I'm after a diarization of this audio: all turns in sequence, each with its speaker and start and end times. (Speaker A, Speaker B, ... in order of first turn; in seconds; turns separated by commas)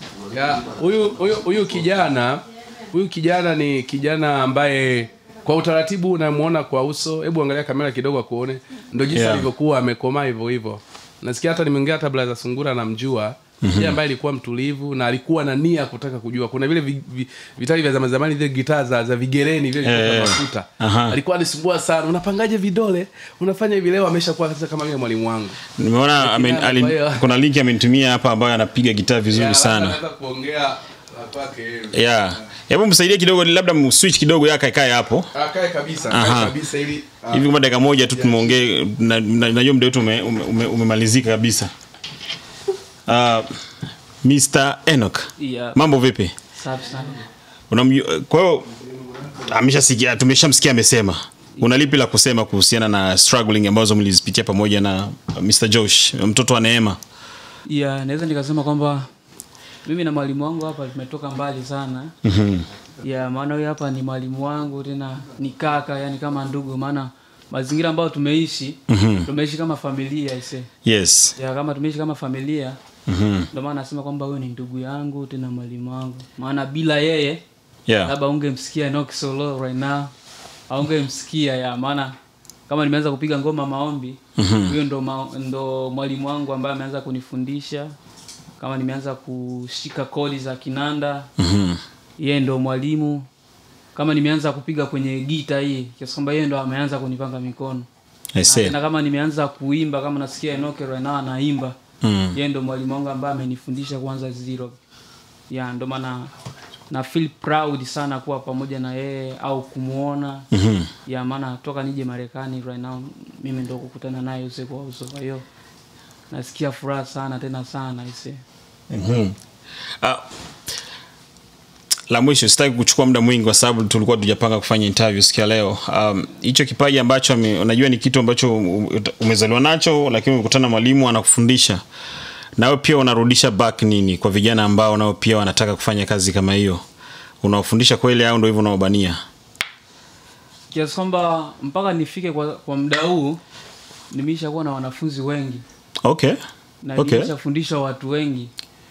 Speaker A: 0.3-25.6, Speaker B: 9.1-9.5, Speaker B: 13.6-14.0, Speaker B: 19.8-21.2, Speaker B: 25.8-30.0, Speaker A: 26.2-27.3, Speaker A: 29.3-32.2, Speaker B: 31.9-35.3, Speaker A: 35.3-37.5, Speaker B: 36.1-36.5, Speaker B: 37.3-41.7, Speaker A: 38.1-38.6, Speaker B: 43.0-43.5, Speaker B: 44.2-46.3, Speaker C: 45.4-45.8, Speaker C: 46.5-47.2, Speaker B: 47.7-48.7, Speaker B: 49.4-57.0, Speaker C: 57.6-59.1, Speaker C: 59.8-62.1, Speaker B: 62.2-62.7, Speaker C: 63.0-70.7, Speaker B: 68.9-69.3, Speaker B: 70.8-71.3, Speaker C: 71.4-72.8, Speaker B: 73.1-73.5, Speaker C: 73.5-77.4, Speaker B: 77.9-78.1, Speaker C: 78.0-80.1, Speaker C: 80.7-82.1, Speaker C: 82.7-88.0, Speaker B: 84.4-84.8, Speaker C: 88.6-91.3, Speaker B: 91.4-91.8, Speaker C: 92.2-93.3, Speaker C: 93.9-97.9, Speaker B: 98.3-98.8, Speaker C: 98.4-101.8, Speaker B: 102.0-102.4, Speaker C: 102.3-104.8, Speaker C: 105.5-106.3, Speaker C: 106.9-110.5, Speaker B: 110.5-110.9, Speaker C: 111.1-115.4, Speaker C: 116.3-118.4, Speaker B: 118.9-119.4, Speaker B: 120.0-120.2, Speaker B: 122.1-131.8, Speaker B: 132.6-136.8, Speaker B: 137.4-139.2, Speaker C: 140.7-143.4, Speaker C: 144.1-145.6, Speaker B: 146.0-146.4, Speaker C: 146.8-148.5, Speaker B: 147.0-147.3